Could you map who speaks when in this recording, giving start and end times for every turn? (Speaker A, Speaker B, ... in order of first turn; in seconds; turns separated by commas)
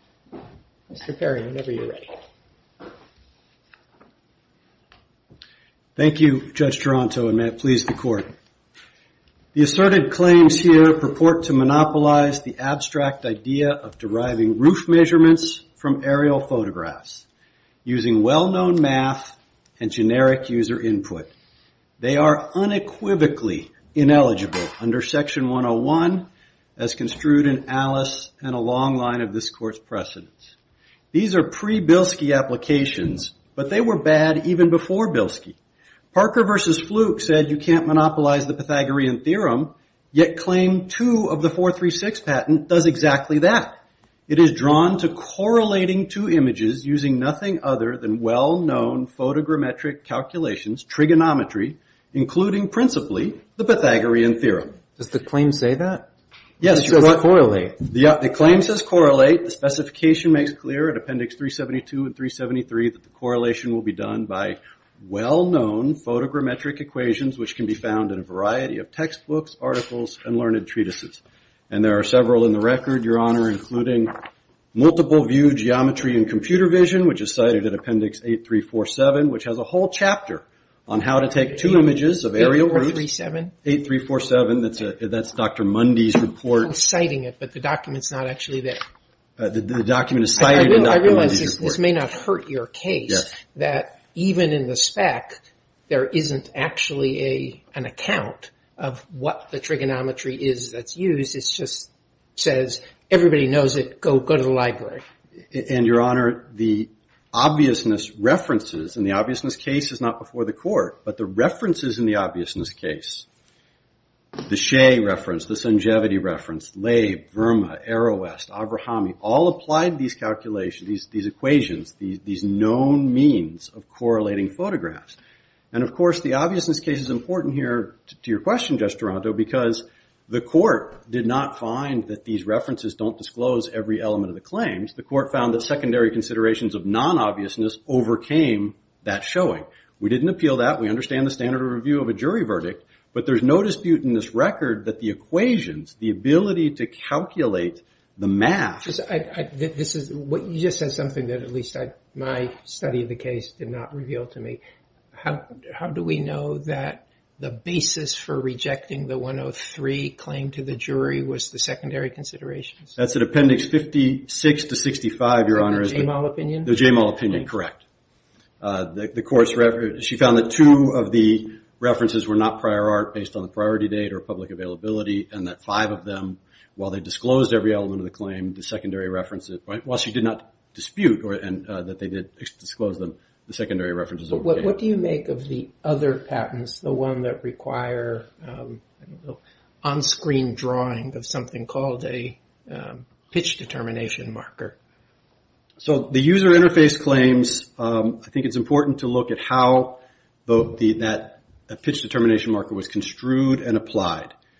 Speaker A: 0.9-2.1, Speaker B: 6.0-8.3, Speaker B: 9.5-17.2, Speaker B: 17.9-21.3, Speaker B: 22.0-30.5, Speaker B: 31.1-35.6, Speaker B: 36.1-54.8, Speaker C: 55.0-56.1, Speaker B: 56.6-57.2, Speaker C: 56.6-57.8, Speaker B: 57.8-74.2, Speaker B: 74.7-83.1, Speaker A: 81.5-83.5, Speaker B: 83.6-86.7, Speaker A: 86.6-88.8, Speaker B: 89.4-91.8, Speaker A: 90.4-105.0, Speaker B: 105.5-113.3, Speaker B: 114.5-125.2, Speaker B: 125.7-148.9, Speaker A: 148.8-154.6, Speaker A: 155.1-162.9, Speaker B: 162.9-166.1, Speaker A: 165.5-166.7, Speaker B: 166.6-167.8, Speaker B: 168.6-184.7, Speaker A: 184.3-194.8, Speaker B: 195.8-204.3